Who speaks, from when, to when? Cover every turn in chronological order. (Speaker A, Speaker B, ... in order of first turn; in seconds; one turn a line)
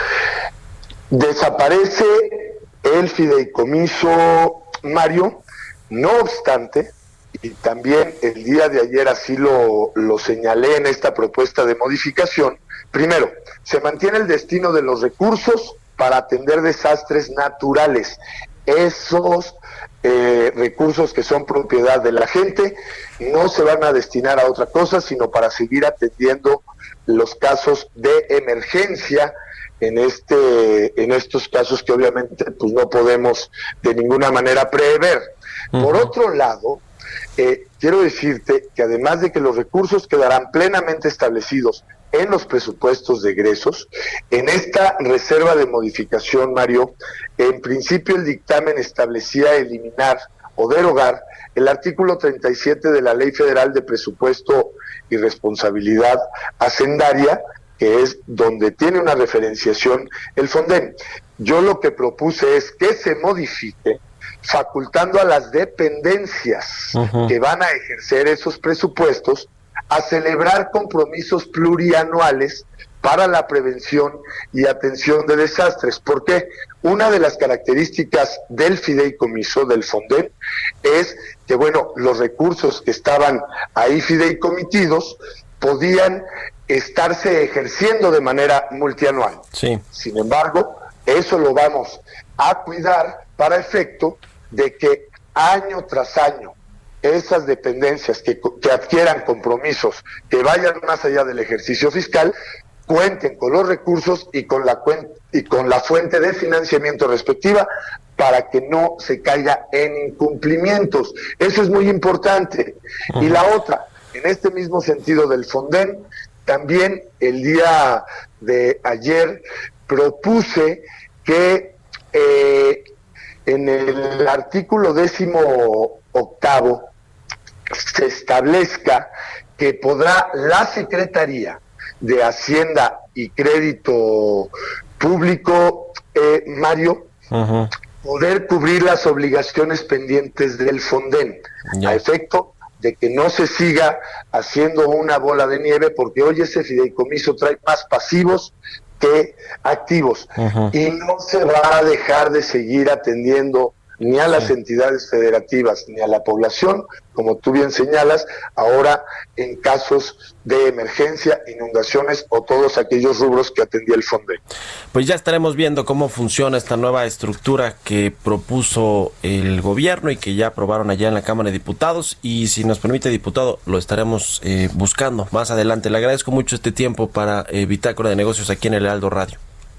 Speaker A: 1.1-36.8
Speaker B: 35.7-36.1
Speaker A: 37.4-102.3
Speaker B: 67.0-67.3
Speaker B: 89.5-89.8
Speaker A: 102.9-122.9
Speaker A: 123.5-126.9
Speaker A: 127.7-137.1
Speaker B: 137.3-137.7
Speaker A: 138.0-164.4
Speaker B: 141.7-142.0
Speaker B: 150.4-150.7
Speaker B: 164.9-179.4